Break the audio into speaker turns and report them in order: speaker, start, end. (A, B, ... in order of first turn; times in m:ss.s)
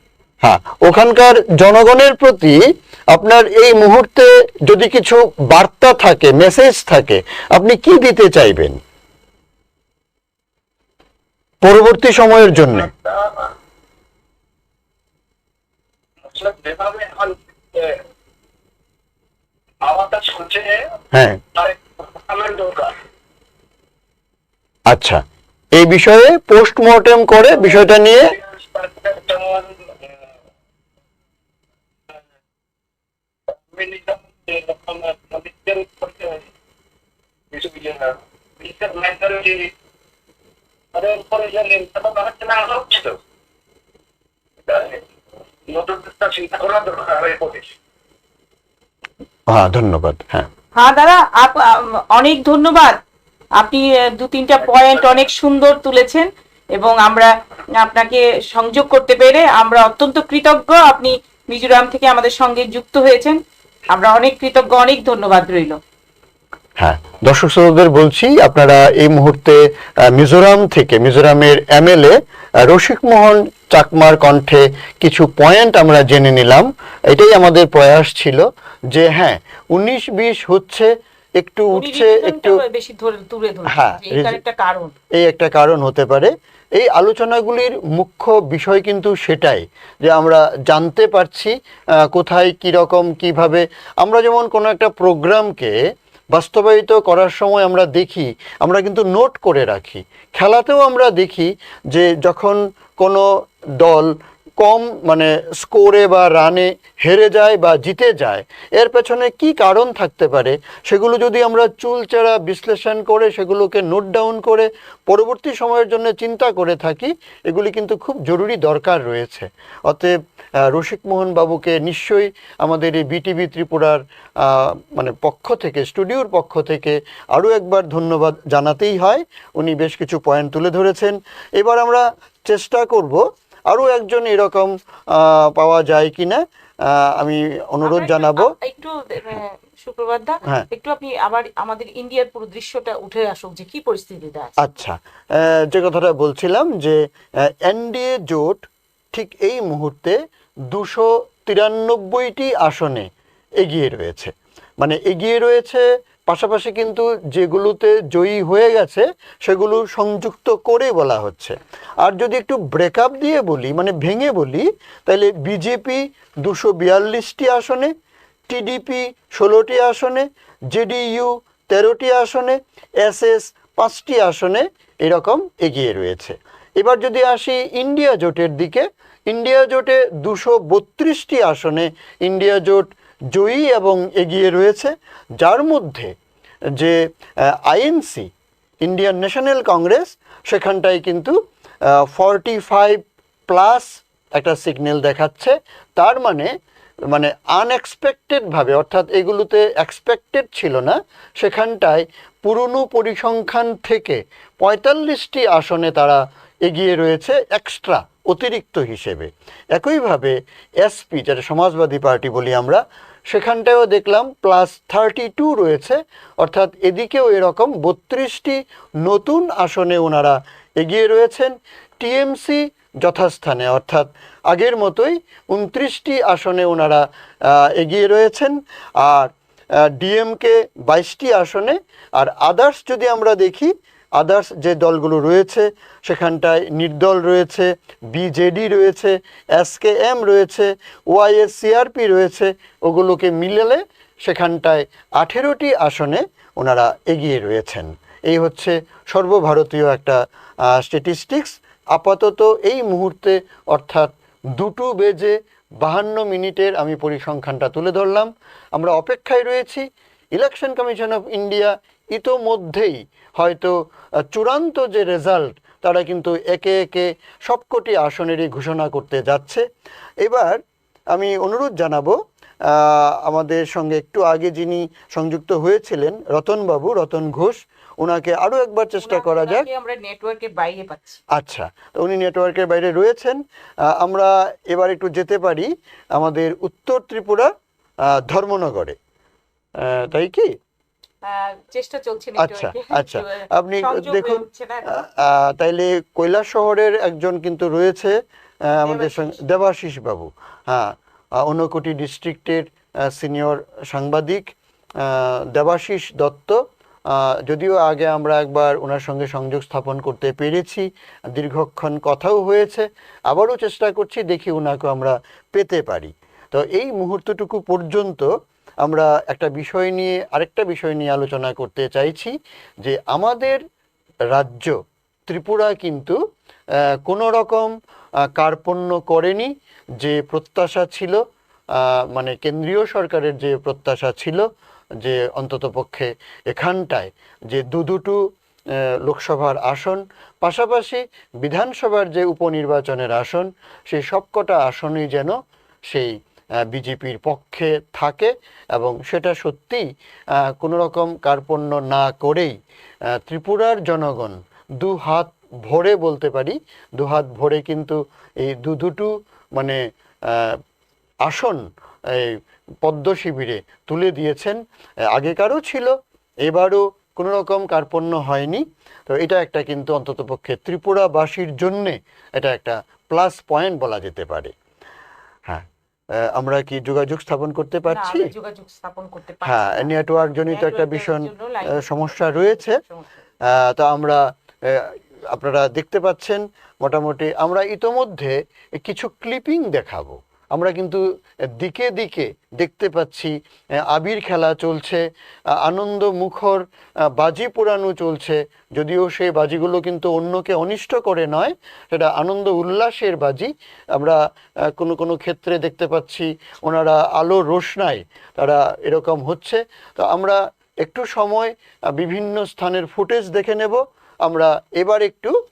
0:00.4-0:08.8 A
0:11.6-0:12.9 A
0:12.7-0:13.5 B
0:16.2-0:18.0 B
0:19.8-0:20.9 B
0:21.1-0:21.4 A
0:21.5-0:22.9 B
0:24.9-0:25.2 A
0:25.7-0:28.3 A
0:27.5-0:30.2 B
0:33.5-0:36.5 B
0:37.5-0:39.7 B
0:40.9-0:43.2 B
0:44.6-0:45.0 B
0:45.6-0:47.7 B
0:49.5-0:50.5 A
0:50.7-0:53.0 C
0:53.6-1:05.8 C
0:54.7-0:55.2 B
1:06.8-1:22.6 A
1:21.7-1:24.9 C
1:23.7-1:24.4 A
1:25.1-1:35.8 A
1:36.3-1:43.2 A
1:43.8-2:00.1 A
2:00.6-2:18.5 A
2:17.8-2:24.6 C
2:24.6-2:30.2 A
2:30.7-2:33.1 A
2:33.6-2:47.9 A
2:48.5-3:06.1 A
3:07.5-3:08.3 A
3:08.8-3:11.4 A
3:11.9-3:16.5 A
3:17.1-4:23.7 A
4:24.3-4:29.6 A
4:30.2-4:30.6 A
4:31.1-4:32.2 A
4:32.7-4:39.6 A
4:39.0-4:41.2 C
4:41.3-4:47.5 A
4:48.0-4:49.0 A
4:49.8-4:50.5 A
4:51.2-4:55.0 C
4:52.4-5:18.3 A
4:58.8-4:59.4 C
5:18.8-5:23.6 A
5:24.3-5:24.8 A
5:25.3-5:26.2 A
5:27.0-5:27.7 A
5:28.3-5:31.2 A
5:31.8-5:34.4 A
5:35.0-5:38.2 A
5:39.0-5:45.3 A
5:45.9-5:46.1 A
5:46.6-5:49.8 A
5:50.6-5:52.5 A
5:53.2-6:00.6 A
6:01.2-6:04.6 A
6:05.1-6:05.9 A
6:06.4-6:14.5 A
6:16.2-6:18.3 A
6:17.9-6:19.9 C
6:19.4-6:22.8 A
6:20.5-6:23.1 C
6:23.5-6:31.0 A
6:31.5-6:33.3 A
6:33.9-6:35.0 A
6:35.6-6:36.6 A
6:37.1-6:44.2 A
6:44.7-6:55.3 A